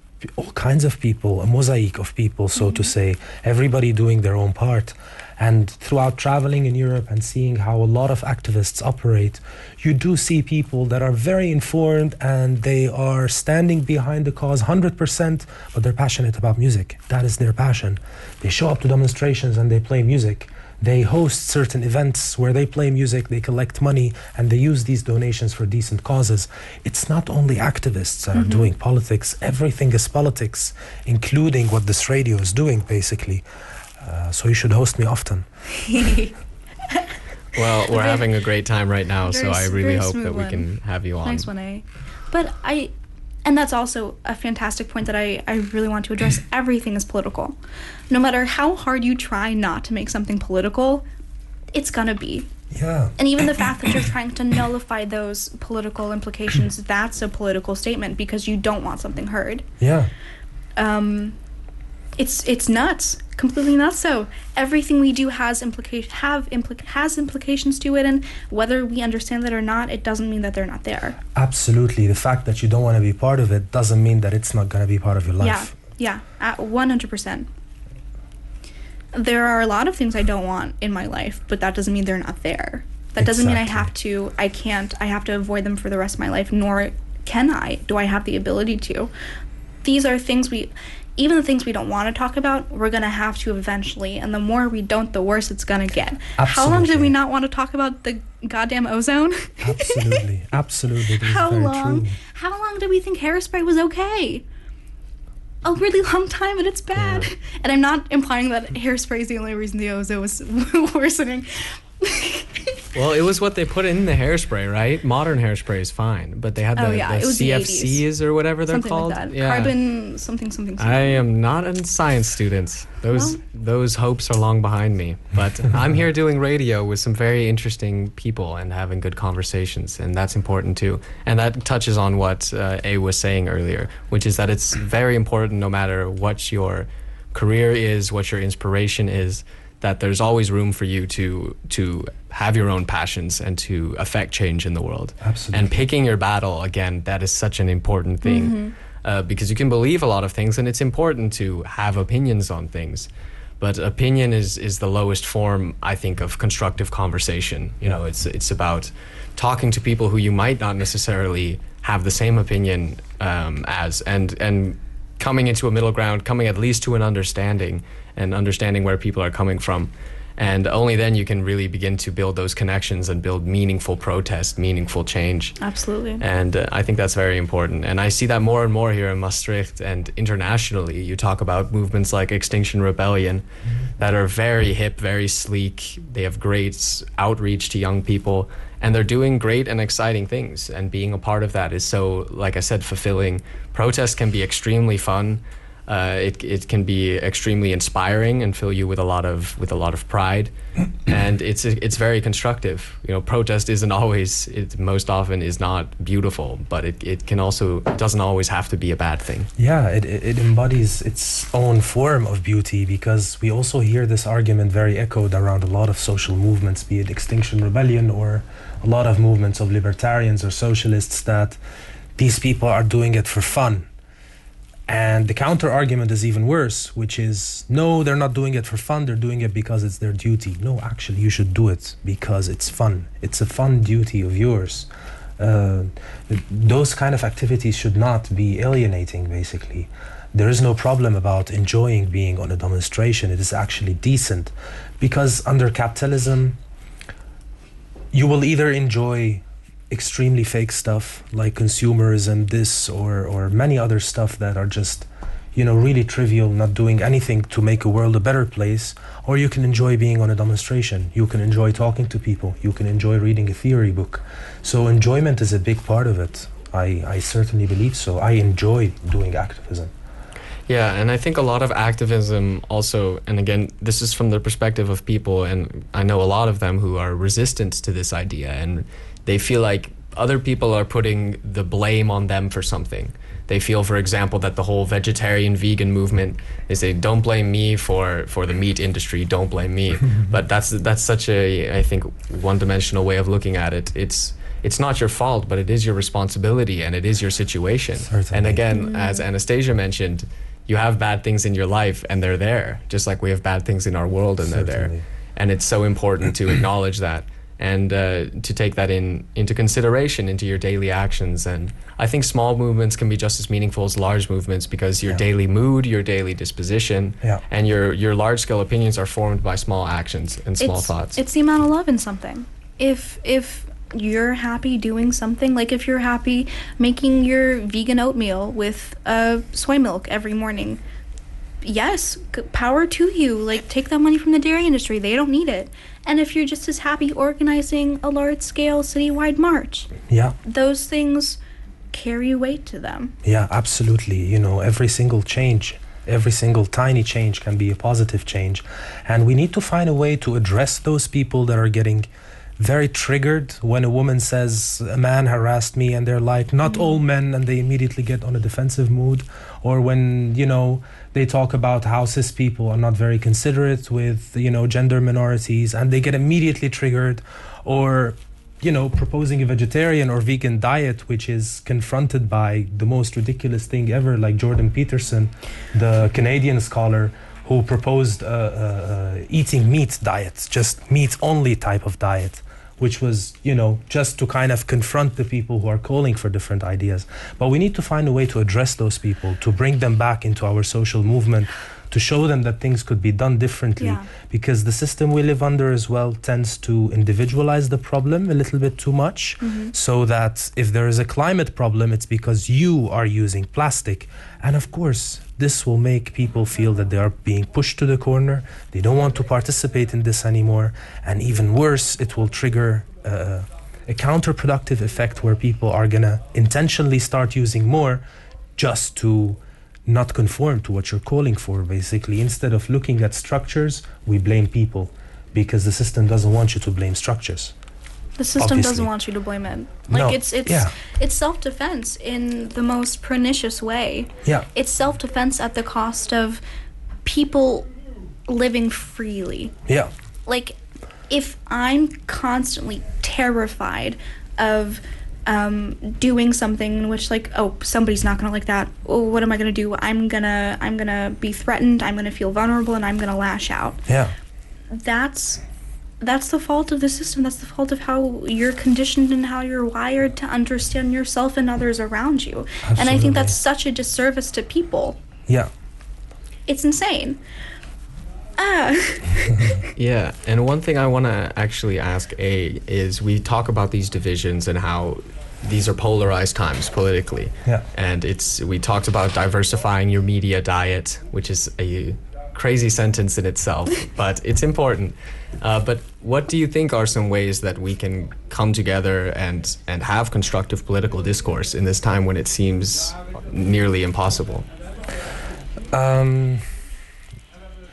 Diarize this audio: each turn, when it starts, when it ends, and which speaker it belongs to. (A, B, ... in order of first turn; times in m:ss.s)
0:00.2-0:33.4 A
0:02.6-0:02.9 B
0:28.3-0:28.7 B
0:34.0-0:35.5 A
0:35.9-0:36.3 B
0:37.5-0:41.5 C
0:37.9-0:38.2 B
0:39.2-0:40.6 B
0:41.2-0:42.9 B
0:43.4-0:47.6 B
0:48.1-0:51.1 B
0:51.7-0:52.5 B
0:52.7-0:53.1 A
0:53.2-0:59.6 B
0:59.8-1:00.1 A
1:00.8-1:01.4 B
1:02.2-1:11.2 B
1:11.3-1:15.8 A
1:15.4-1:17.5 B
1:19.1-1:29.1 B
1:23.2-1:23.9 A
1:29.8-1:40.2 B
1:36.4-1:37.1 A
1:39.6-1:42.2 A
1:41.2-1:44.4 B
1:45.6-1:52.7 B
1:47.0-1:47.3 C
1:52.9-1:59.7 C
1:56.8-1:58.0 B
1:58.7-2:01.2 B
2:00.8-2:33.1 C
2:03.1-2:03.4 B
2:25.2-2:25.8 A
2:28.2-2:28.7 B
2:33.6-2:55.6 C
2:55.6-2:56.2 B
2:56.2-3:03.4 C
3:04.0-3:20.5 C
3:21.0-3:29.5 C
3:29.6-3:41.6 A
3:42.2-3:43.9 A
3:44.9-4:06.6 A
4:08.1-4:29.9 A
4:30.7-5:21.2 C
4:58.1-4:58.6 A
4:58.7-4:59.2 B
5:04.4-5:05.0 A
5:20.6-5:30.8 B
5:31.6-5:39.9 B
5:40.1-5:40.4 A
5:40.4-5:41.4 B
5:41.9-5:43.1 B
5:43.2-5:52.1 A
5:52.6-6:58.0 A
5:56.6-5:57.0 B
6:33.8-6:34.1 B
6:39.4-6:39.7 B
6:58.6-7:07.5 A
7:08.2-7:16.4 B
7:08.4-7:08.9 A
7:09.9-7:10.7 A
7:17.0-7:17.7 B
7:18.3-7:19.5 B
7:20.2-7:20.6 B
7:21.1-7:33.8 B
7:33.9-7:34.1 A
7:34.7-7:35.4 B
7:36.0-7:45.0 B
7:42.6-7:43.4 A
7:46.5-7:47.2 B
7:48.4-7:49.6 B
7:49.3-7:49.6 A
7:49.8-8:14.4 C
8:15.7-8:16.4 A